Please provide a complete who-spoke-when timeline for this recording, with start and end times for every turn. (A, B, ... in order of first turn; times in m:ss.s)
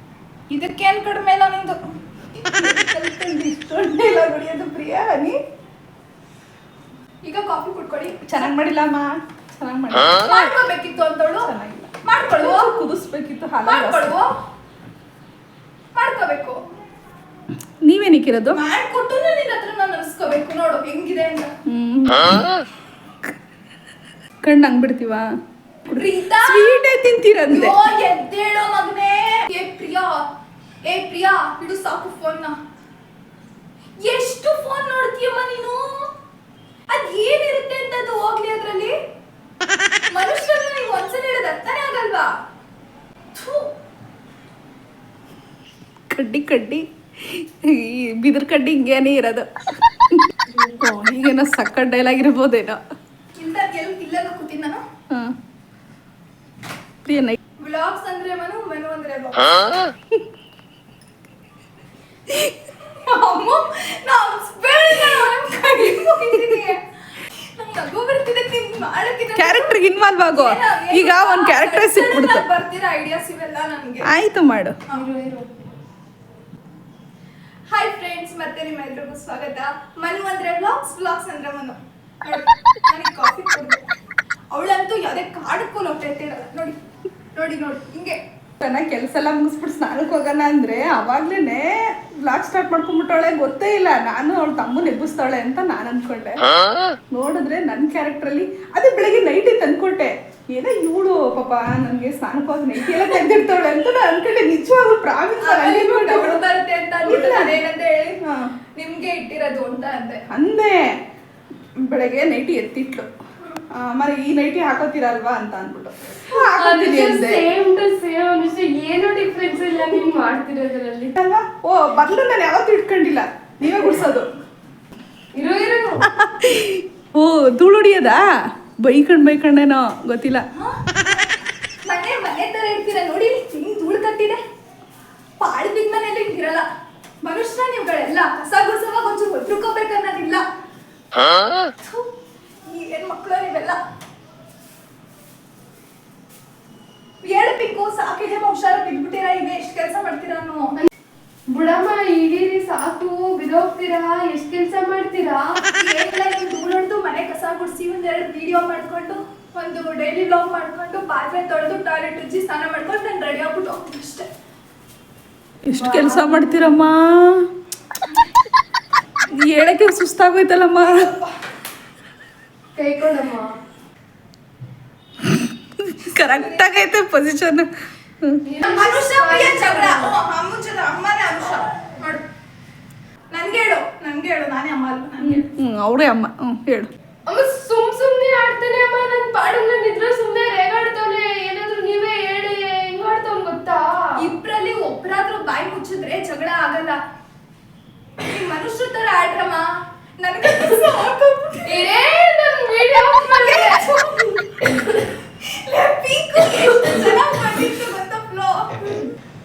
0:00.5-0:01.8 A
0:02.5-0:05.4 B
0:07.2-0:08.3 A
0:08.2-0:10.3 B
0:10.2-0:11.5 A
0:11.4-0:14.1 B
0:12.0-0:12.8 A
0:13.6-0:14.3 A
0:15.9-0:16.6 A
0:17.8-0:18.6 B
0:18.5-0:21.5 A
0:21.7-0:22.6 B
0:24.4-0:25.3 B
0:25.9-0:27.8 B
0:25.9-0:26.9 A
0:27.5-0:30.2 A
0:30.8-0:32.6 A
0:34.0-0:36.1 A
0:36.9-0:38.9 A
0:40.1-0:42.3 A
0:43.3-0:43.7 A
0:46.1-0:50.3 B
0:50.8-0:52.8 B
0:53.4-0:54.8 A
0:55.1-0:55.4 B
0:57.0-0:57.4 B
0:57.6-0:59.9 A
1:02.8-1:09.8 A
1:09.4-1:12.4 B
1:10.3-1:14.1 A
1:14.0-1:14.8 B
1:14.9-1:15.5 C
1:17.7-1:23.8 A
1:24.5-1:26.8 A
1:27.3-1:28.2 A
1:28.6-1:46.4 B
1:45.4-1:48.2 A
1:47.0-1:47.6 B
1:48.8-1:50.2 A
1:50.3-1:51.0 B
1:51.8-1:53.1 B
1:53.7-1:57.5 B
1:56.3-2:01.1 C
2:01.1-2:04.3 B
2:05.3-2:06.1 C
2:06.0-2:08.3 B
2:08.8-2:10.4 B
2:10.5-2:11.0 A
2:11.8-2:14.4 A
2:15.4-2:16.7 A
2:17.2-2:20.4 A
2:21.8-2:22.1 A
2:22.6-2:23.8 A
2:27.2-2:30.8 A
2:31.5-2:35.6 C
2:35.7-2:44.3 A
2:45.6-2:47.5 B
2:45.7-2:46.8 C
2:49.3-2:51.1 B
2:50.9-2:51.3 A
2:52.7-2:53.5 C
2:55.2-2:57.7 B
2:56.1-2:56.6 A
2:58.4-3:00.1 C
2:58.6-3:02.2 A
3:03.3-3:05.5 A
3:05.2-3:06.9 B
3:07.3-3:14.2 C
3:14.2-3:17.0 A
3:18.2-3:19.7 A
3:20.2-3:21.9 A
3:21.6-3:23.9 C
3:23.2-3:24.7 A
3:25.4-3:29.0 A